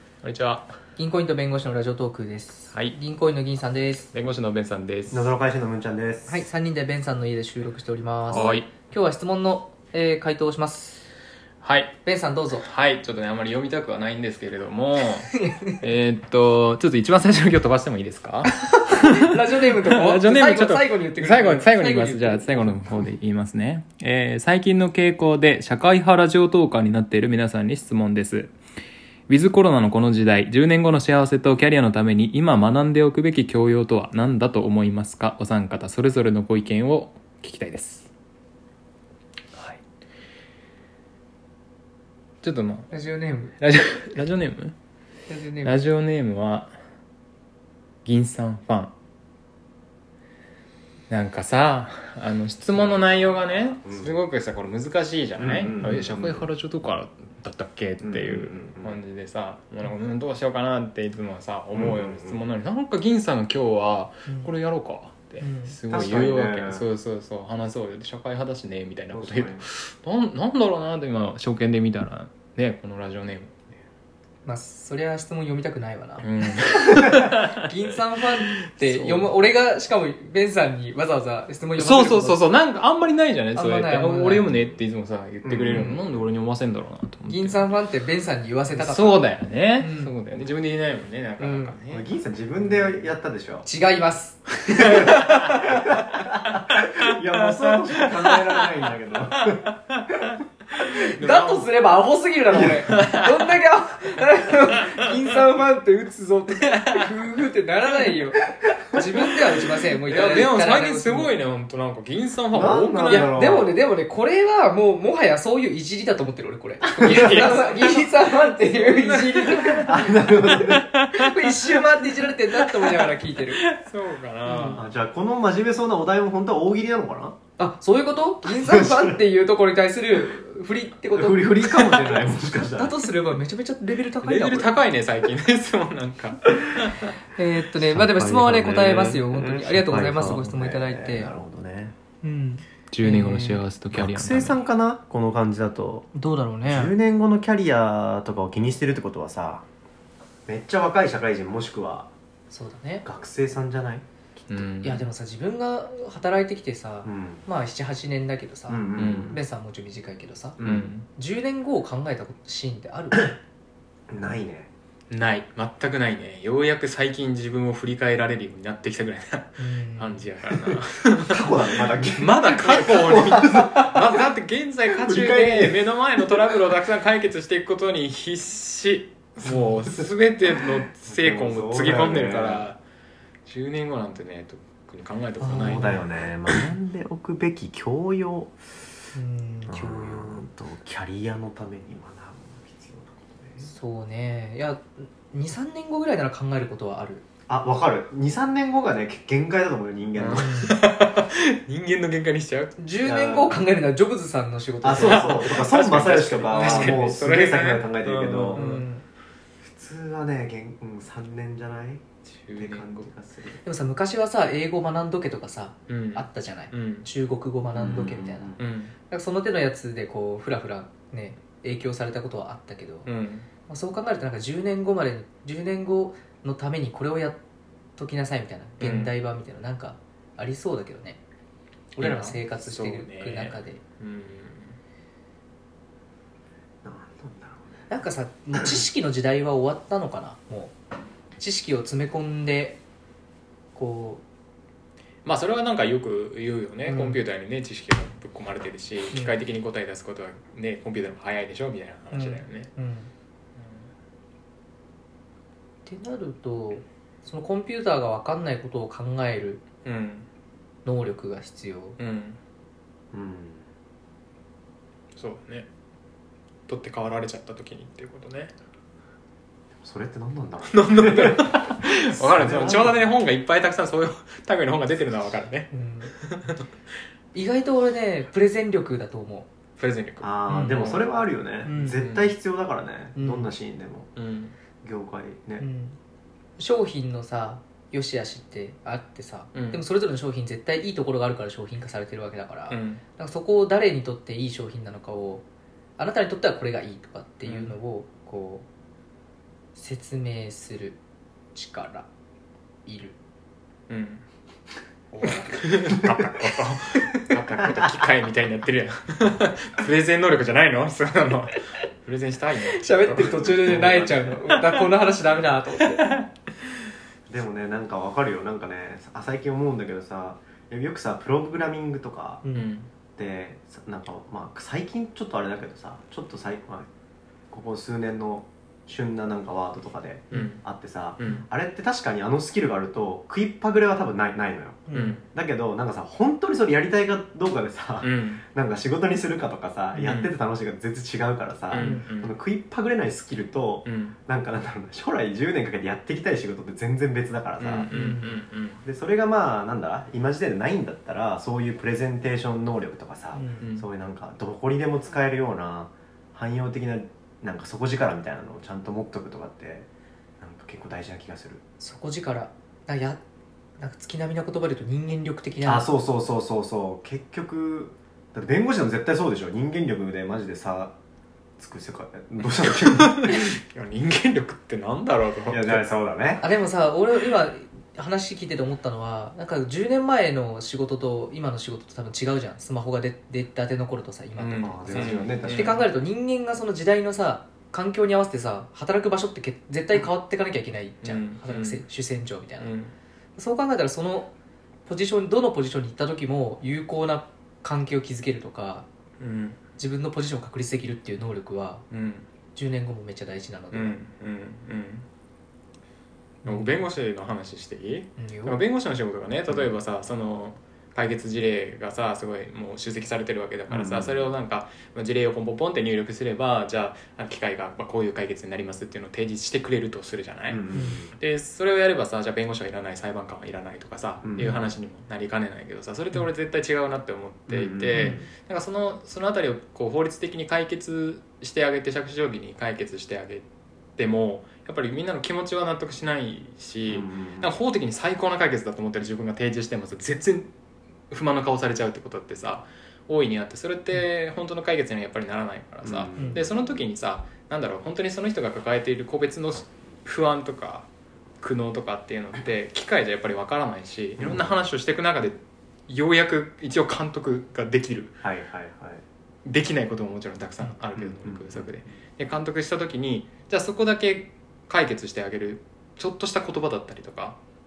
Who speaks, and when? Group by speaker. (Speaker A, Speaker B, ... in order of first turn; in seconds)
Speaker A: 0.2-0.7, 4.1-5.3, 8.3-8.7, 11.6-12.0, 12.6-28.5, 29.3-38.1, 42.4-42.9, 43.6-44.8, 45.6-46.8, 48.0-48.9, 51.1-73.6, 76.2-77.6, 78.5-79.3, 81.8-87.7, 88.7-92.1, 92.6-93.1, 94.7-95.6, 96.7-97.2, 97.7-98.7, 99.5-101.7, 102.7-103.6, 104.7-105.1, 106.8-107.0, 110.1-113.3, 117.0-124.9, 131.7-132.2, 134.2-137.1, 142.9-144.6, 154.5-155.1, 158.9-159.4, 160.6-161.1, 165.1-171.6, 172.2-182.8, 183.4-186.5, 200.2-202.8, 204.9-208.9, 212.4-213.1, 215.9-217.1, 218.6-218.9, 223.1-223.5, 228.8-229.2, 232.0-234.8, 245.2-252.7, 259.9-260.3, 262.0-262.4, 265.2-265.7, 266.7-268.5, 270.7-276.6, 279.8-281.1, 281.9-282.4, 284.2-284.6, 289.5-289.8, 292.7-293.0, 297.4-297.8, 303.9-304.2, 305.1-314.8, 322.5-322.9, 330.3-330.6, 331.2-331.4, 334.9-335.3, 338.0-338.4, 339.9-340.3, 341.7-342.3, 343.9-344.2, 347.6-348.8, 353.6-353.9, 372.8-375.8, 384.4-385.8, 391.0-391.8, 392.6-392.9, 399.2-399.6, 401.9-402.2, 403.7-405.1, 406.4-420.6, 421.2-433.5, 434.0-440.5, 441.1-450.9, 451.4-458.2, 459.4-467.4
Speaker B: 1.0-4.1, 6.3-11.1, 12.0-12.7, 15.3-15.8, 18.6-23.1, 42.9-43.6, 45.3-45.8, 65.4-65.8, 74.5-82.4, 83.5-84.5, 85.7-86.0, 87.3-90.1, 91.4-91.8, 93.7-96.1, 101.2-111.3, 113.0-123.6, 124.5-124.8, 127.6-131.6, 132.7-134.8, 137.4-141.3, 142.2-143.6, 146.1-146.9, 152.5-153.1, 154.8-160.6, 161.2-163.3, 169.6-170.3, 185.4-186.1, 189.2-190.5, 193.6-197.3, 200.4-200.8, 202.8-205.6, 206.5-207.0, 208.5-209.0, 213.6-218.6, 219.1-223.1, 223.7-227.4, 228.0-231.2, 231.9-233.8, 237.9-240.8, 241.4-242.8, 243.7-244.2, 246.8-247.2, 249.1-249.4, 252.1-253.1, 255.9-259.6, 260.9-262.0, 275.7-276.1, 277.3-279.5, 280.5-280.9, 281.6-282.0, 283.2-283.5, 285.6-286.0, 286.6-295.4, 296.0-298.7, 299.8-301.0, 301.6-302.1, 302.9-303.2, 312.6-316.2, 322.4-322.7, 334.9-335.2, 341.8-342.0, 347.9-348.4, 353.3-353.6, 361.8-363.2, 363.8-365.9, 376.4-392.7, 393.4-394.3, 394.9-398.9, 399.8-401.8, 402.6-404.0, 406.5-406.7, 408.2-408.6, 420.7-421.0, 427.9-428.2
Speaker C: 5.1-6.4, 52.8-54.1, 55.4-56.5, 58.0-59.0, 61.7-62.4, 65.9-66.8, 69.1-69.7, 85.4-86.2, 91.9-93.7, 95.7-99.7, 112.5-113.7, 117.0-117.5, 119.7-120.9, 124.7-127.4, 128.4-129.2, 131.1-133.0, 137.8-141.9, 143.9-146.1, 146.7-149.6, 150.5-152.1, 153.1-154.7, 157.1-157.4, 158.7-159.4, 160.6-160.9, 164.1-164.7, 171.2-174.3, 174.9-176.6, 179.4-182.7, 185.4-188.6, 189.7-193.7, 197.5-200.7, 203.0-203.6, 204.8-208.6, 209.6-212.0, 212.6-213.6, 217.7-218.7, 236.8-237.9, 238.6-238.8, 263.1-263.7, 269.8-273.1, 280.2-284.1, 284.8-285.6, 317.3-322.4, 323.2-326.9, 327.5-347.9, 348.9-359.9, 360.4-361.6, 365.6-371.0, 371.6-373.2, 375.5-376.4, 384.6-385.8, 413.7-414.3, 420.5-421.1, 424.2-424.7, 427.5-428.3, 436.9-437.5, 445.8-446.5, 454.2-454.6, 458.2-459.0, 460.9-461.8